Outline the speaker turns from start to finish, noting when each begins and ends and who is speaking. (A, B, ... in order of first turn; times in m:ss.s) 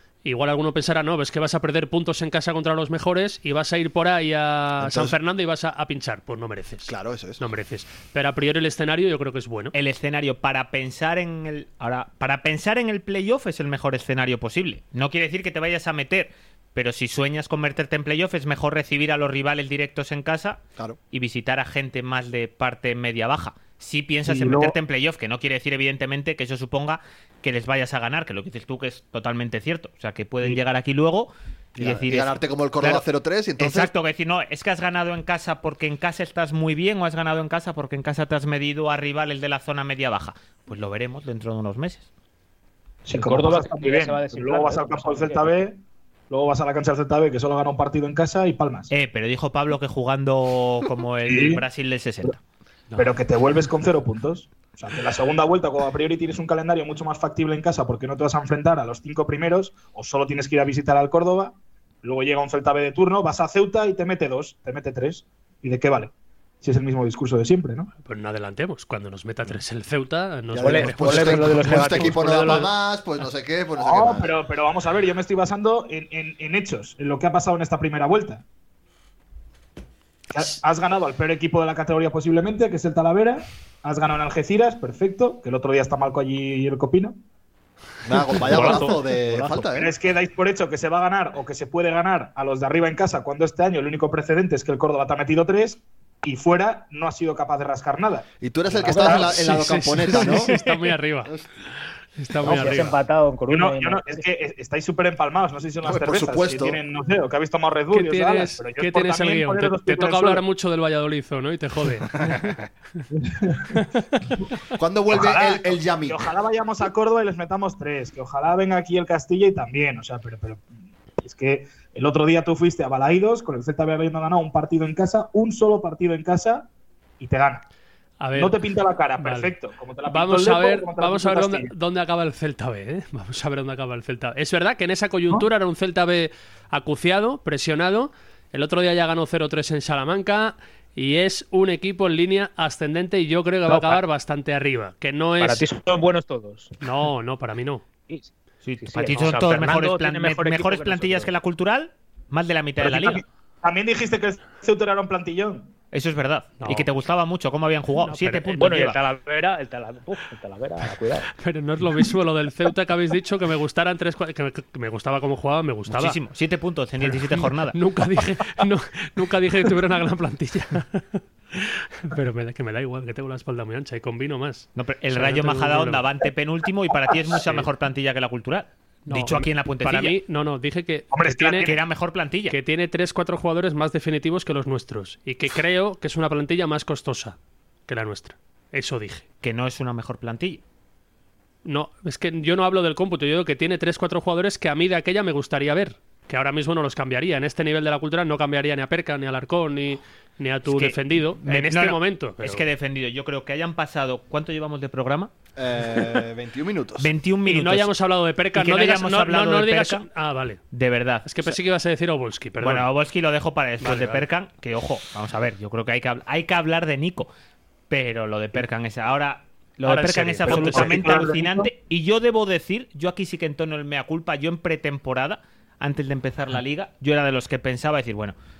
0:00.2-0:09.7 A
0:04.8-0:05.2 B
0:06.8-0:07.4 B
0:09.7-0:20.6 C
0:21.1-0:33.0 C
0:24.3-0:24.8 D
0:31.8-0:33.9 B
0:33.6-0:42.1 C
0:43.1-0:48.9 D
0:43.1-0:45.5 E
0:48.9-0:52.4 C
0:51.2-0:51.6 D
0:52.9-1:07.9 D
1:08.0-1:12.7 A
1:10.5-1:14.3 B
1:10.6-1:12.7 E
1:13.8-1:18.4 D
1:20.3-1:27.2 D
1:28.0-1:29.9 B
1:28.4-1:29.0 A
1:28.5-1:28.9 D
1:29.7-1:39.5 D
1:38.4-1:40.5 B
1:38.9-1:39.3 E
1:39.4-1:41.3 A
1:42.2-1:43.0 A
1:42.4-1:44.2 E
1:43.5-1:50.4 D
1:45.8-1:46.8 B
1:47.9-1:52.4 A
1:53.2-1:53.8 D
1:54.8-1:56.3 B
1:55.1-2:00.7 D
2:01.2-2:07.6 D
2:08.2-2:08.6 A
2:08.4-2:11.7 D
2:09.2-2:09.6 A
2:10.1-2:25.7 A
2:23.7-2:24.0 E
2:25.4-2:26.7 E
2:26.8-2:27.8 A
2:28.1-2:31.3 E
2:28.6-2:33.2 C
2:32.8-2:35.7 D
2:35.9-2:39.0 C
2:38.0-2:38.8 A
2:38.6-2:41.3 E
2:41.4-2:46.2 A
2:45.9-2:47.8 C
2:47.0-2:56.1 A
2:54.8-3:00.2 C
2:57.3-2:57.7 A
2:59.1-3:01.7 A
3:01.1-3:01.8 D
3:01.6-3:02.6 C
3:02.5-3:07.4 A
3:07.9-3:09.2 A
3:09.4-3:10.6 C
3:11.6-3:22.7 A
3:20.7-3:25.3 C
3:25.6-3:27.1 B
3:27.0-3:27.9 C
3:27.5-3:30.6 A
3:28.6-3:30.1 C
3:30.7-3:31.6 C
3:31.2-3:32.9 A
3:32.6-3:37.3 C
3:33.8-3:34.3 A
3:37.9-3:48.4 C
3:39.9-3:41.3 A
3:40.4-3:41.7 D